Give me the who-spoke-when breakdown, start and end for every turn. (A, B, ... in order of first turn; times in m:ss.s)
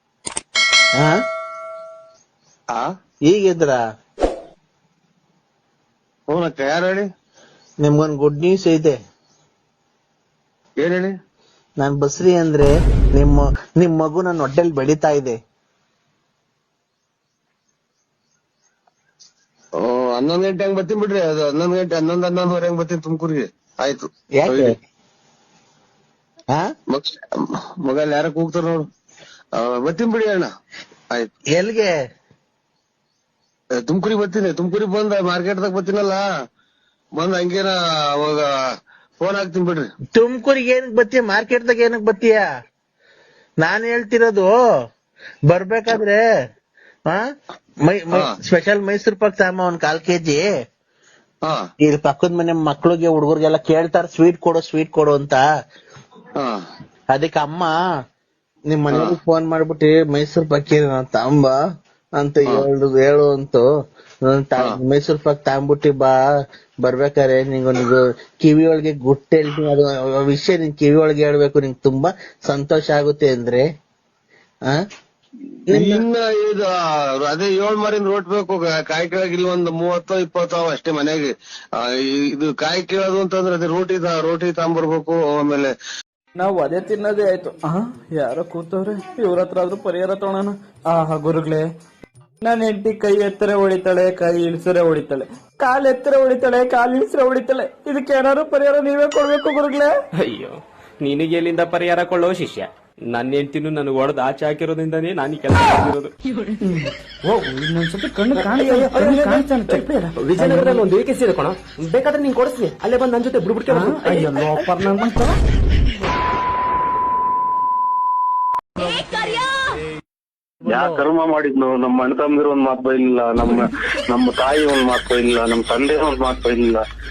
0:03.3-0:03.8 A
0:06.3-0:07.0 B
0:07.8-0:09.0 A
0:10.8-0:11.1 B
0:11.8-0:15.4 A
0:19.8-0:24.7 B
0:24.4-0:24.8 A
0:26.9-0:27.2 B
0:27.8-0:28.8 B
0:29.6-0:30.5 B
0:31.6-0:31.9 A
0:33.8-0:36.2 B
0:37.2-0:38.4 B
0:39.2-0:39.8 B
0:40.2-0:42.4 A
0:43.6-0:44.5 A
0:45.5-0:46.2 A
0:47.8-0:50.5 A
0:51.8-0:55.4 A
0:57.1-0:57.7 A
0:58.7-1:01.6 A
0:58.9-0:59.2 B
1:02.2-1:03.7 A
1:04.3-1:06.2 A
1:06.8-1:13.6 A
1:15.7-1:16.0 A
1:15.7-1:16.7 B
1:17.2-1:25.7 B
1:26.4-1:31.6 C
1:32.4-1:39.9 C
1:40.3-1:46.1 D
1:46.6-1:50.8 C
1:48.4-1:55.0 D
1:53.7-1:55.3 C
2:00.6-2:06.8 E